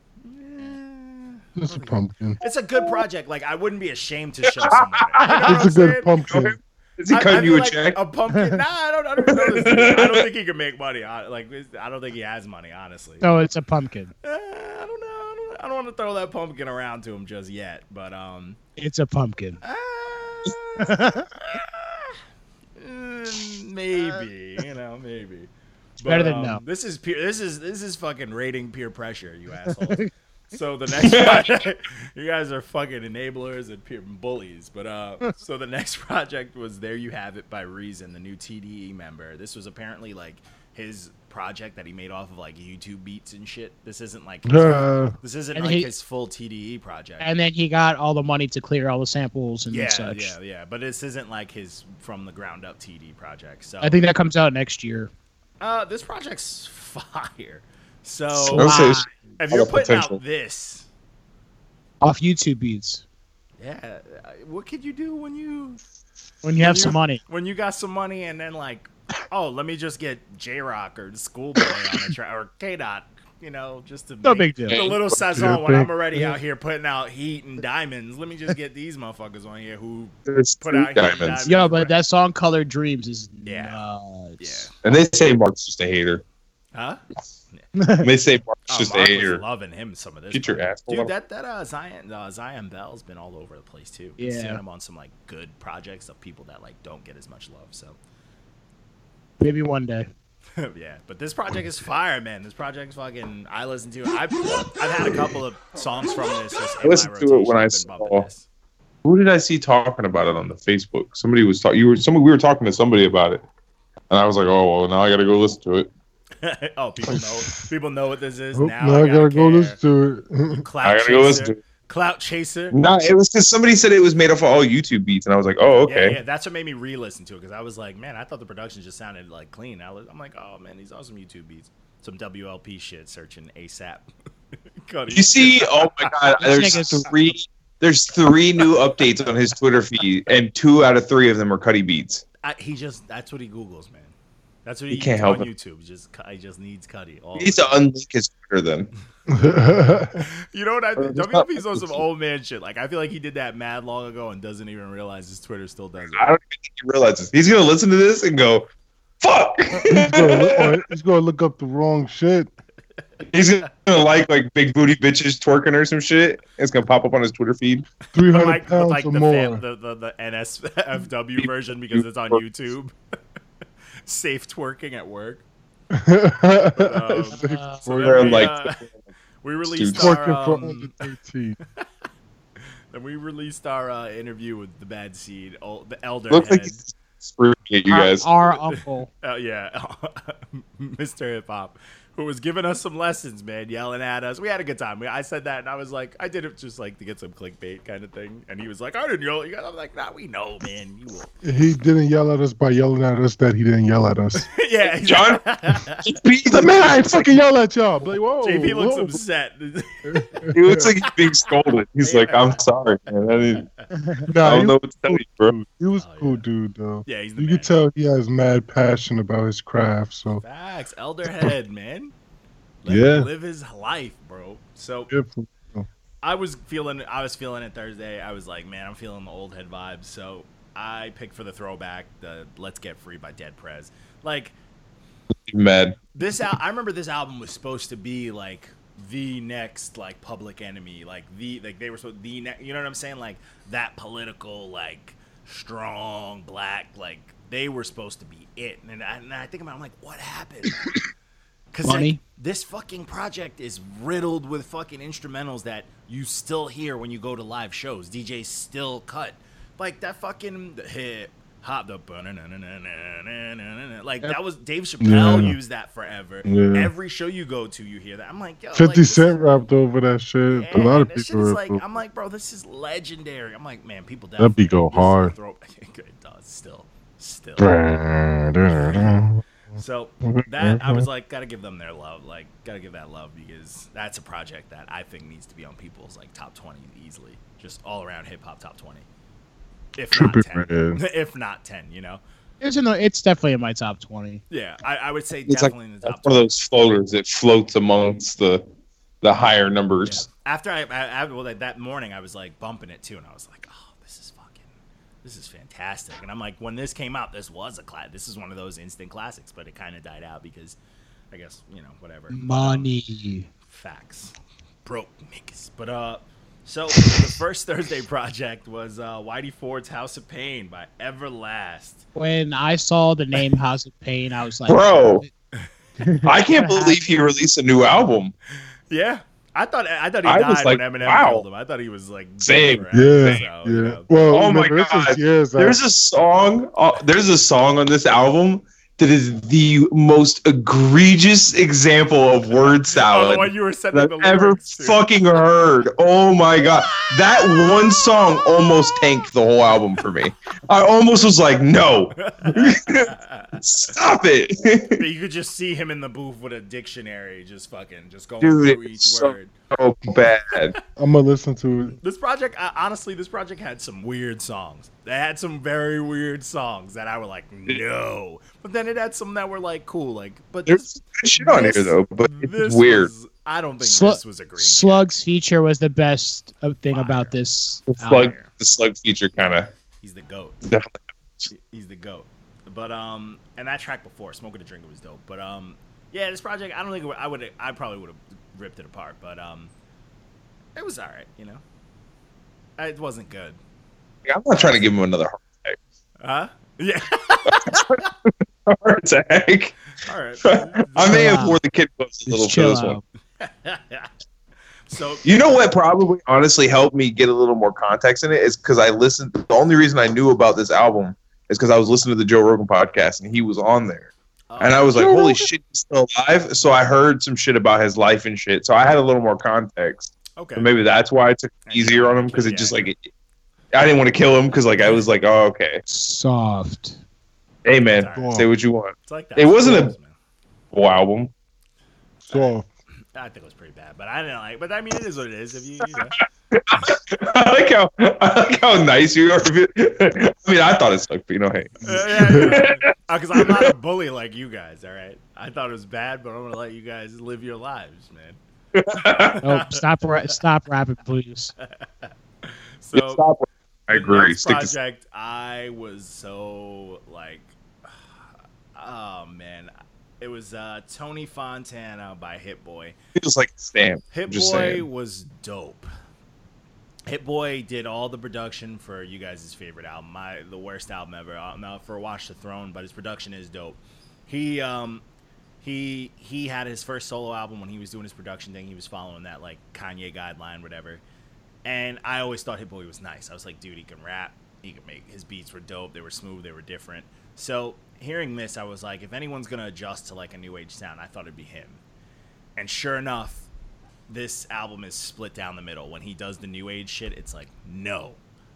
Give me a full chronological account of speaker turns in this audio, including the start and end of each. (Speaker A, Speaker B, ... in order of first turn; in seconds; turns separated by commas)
Speaker A: 0.2-6.2, Speaker B: 1.6-2.4, Speaker C: 4.6-5.4, Speaker B: 5.5-6.6, Speaker C: 6.3-8.0, Speaker A: 7.1-13.3, Speaker C: 9.2-10.2, Speaker D: 13.2-14.1, Speaker A: 14.2-18.6, Speaker D: 18.8-19.6, Speaker A: 19.6-22.2, Speaker D: 20.8-21.3, Speaker A: 22.8-47.3, Speaker D: 26.0-26.6, Speaker D: 29.8-30.1, Speaker C: 30.9-31.5, Speaker B: 44.5-45.1, Speaker D: 45.5-45.9, Speaker D: 47.2-50.3, Speaker A: 49.7-54.0, Speaker D: 53.8-55.1, Speaker A: 55.6-58.8, Speaker C: 58.5-60.2, Speaker D: 58.5-59.1, Speaker A: 59.4-60.9, Speaker D: 62.0-63.0, Speaker A: 63.6-65.8, Speaker D: 66.4-67.2, Speaker A: 66.6-81.9, Speaker D: 74.2-74.8, Speaker C: 74.7-75.1, Speaker B: 75.2-76.3, Speaker C: 80.3-81.5, Speaker D: 81.5-84.7, Speaker A: 83.4-83.8, Speaker A: 84.4-84.7, Speaker C: 84.8-86.2, Speaker A: 86.7-87.7, Speaker D: 87.7-88.1, Speaker C: 88.0-89.4, Speaker A: 88.7-98.0, Speaker C: 90.3-91.1, Speaker D: 94.2-94.6, Speaker D: 99.4-100.1, Speaker A: 100.6-108.5, Speaker C: 106.8-108.2, Speaker C: 109.0-113.4, Speaker C: 114.1-115.9, Speaker A: 116.4-119.8, Speaker B: 117.1-117.7, Speaker B: 118.5-120.6, Speaker A: 120.6-122.8, Speaker C: 120.8-121.6, Speaker C: 122.7-126.2, Speaker A: 125.8-134.1, Speaker A: 134.8-137.1, Speaker C: 135.1-142.2, Speaker D: 136.4-137.1, Speaker A: 138.6-139.3, Speaker A: 142.4-144.1, Speaker A: 144.6-147.8, Speaker C: 144.9-145.5, Speaker C: 147.3-148.9, Speaker B: 149.3-150.2, Speaker A: 150.1-156.3, Speaker C: 151.0-152.0, Speaker C: 156.1-158.7, Speaker C: 159.2-160.8, Speaker B: 159.7-162.5, Speaker C: 163.3-167.9, Speaker B: 168.1-169.6, Speaker A: 168.2-172.9, Speaker C: 171.4-172.4, Speaker A: 174.0-175.4, Speaker B: 175.9-178.4, Speaker A: 176.7-178.8, Speaker D: 177.3-177.9, Speaker C: 178.0-178.9, Speaker A: 179.4-181.0, Speaker C: 179.7-180.2, Speaker B: 179.9-181.6, Speaker A: 182.9-186.8, Speaker C: 186.3-188.3, Speaker D: 187.9-189.1, Speaker A: 188.7-201.3, Speaker B: 201.4-204.5, Speaker A: 204.4-206.2, Speaker C: 205.0-205.5, Speaker C: 206.0-207.2, Speaker B: 206.5-209.2, Speaker A: 208.4-210.5, Speaker B: 210.1-210.9, Speaker C: 210.5-213.7, Speaker A: 211.0-212.6, Speaker A: 213.3-213.8, Speaker D: 214.0-214.2, Speaker B: 214.3-220.4, Speaker C: 214.4-215.5, Speaker A: 216.0-216.4, Speaker A: 217.1-217.8, Speaker A: 220.4-222.1, Speaker A: 222.8-225.1, Speaker B: 222.9-223.3, Speaker B: 225.1-225.9, Speaker A: 226.2-234.5, Speaker C: 235.4-236.0, Speaker A: 236.1-250.8, Speaker A: 251.7-269.4, Speaker D: 251.8-252.2, Speaker B: 265.0-265.6, Speaker B: 266.4-266.9, Speaker B: 268.7-271.8, Speaker A: 270.5-277.8, Speaker B: 274.4-275.3, Speaker B: 277.6-279.4, Speaker A: 278.7-289.1, Speaker B: 280.2-281.1, Speaker A: 289.9-292.2, Speaker B: 290.1-291.0, Speaker D: 292.6-294.4, Speaker A: 294.5-296.5, Speaker C: 295.5-298.6, Speaker C: 299.2-300.2, Speaker A: 300.0-304.7, Speaker A: 305.2-310.8, Speaker A: 311.3-312.9, Speaker D: 312.3-313.5, Speaker A: 313.6-322.1, Speaker D: 322.1-325.3, Speaker C: 324.7-325.2, Speaker D: 326.0-327.0, Speaker C: 326.2-328.3, Speaker A: 328.9-334.1, Speaker C: 330.2-331.4, Speaker C: 332.4-333.4, Speaker B: 332.9-335.8, Speaker C: 334.3-355.0, Speaker A: 342.5-345.0, Speaker A: 346.6-348.9, Speaker A: 352.2-353.6, Speaker A: 355.0-359.5, Speaker C: 358.4-360.8, Speaker B: 360.9-362.0, Speaker A: 362.0-375.1, Speaker C: 370.6-373.1, Speaker D: 373.8-378.3, Speaker A: 376.9-377.4, Speaker C: 377.9-379.7, Speaker A: 378.1-378.5, Speaker A: 380.0-380.6, Speaker C: 380.6-381.5, Speaker A: 381.5-389.7, Speaker A: 390.7-391.6, Speaker A: 392.8-393.6, Speaker C: 394.2-395.8, Speaker A: 396.2-398.1, Speaker C: 397.5-399.8, Speaker A: 400.0-401.6, Speaker C: 400.4-403.0, Speaker D: 401.1-401.6, Speaker D: 402.3-403.0, Speaker A: 403.4-404.1, Speaker A: 404.9-405.3, Speaker C: 405.2-423.0, Speaker A: 414.5-415.5, Speaker A: 420.4-420.7, Speaker A: 421.6-422.8, Speaker C: 423.7-425.8, Speaker A: 424.8-425.1, Speaker D: 425.9-427.0, Speaker C: 427.6-429.9, Speaker A: 427.9-428.4, Speaker B: 428.1-428.5, Speaker A: 429.1-430.1, Speaker C: 430.7-431.3, Speaker B: 432.2-432.7, Speaker A: 433.1-436.2, Speaker C: 436.5-443.7, Speaker A: 441.8-448.4, Speaker B: 441.9-442.4, Speaker C: 448.7-449.4, Speaker A: 449.2-450.4, Speaker D: 449.4-451.5, Speaker A: 451.6-453.2, Speaker C: 452.9-454.7, Speaker A: 453.9-462.9, Speaker C: 463.1-464.8, Speaker A: 464.1-465.9, Speaker A: 467.1-475.0, Speaker A: 475.6-481.0, Speaker A: 481.6-491.8, Speaker A: 492.6-493.5, Speaker A: 494.1-498.2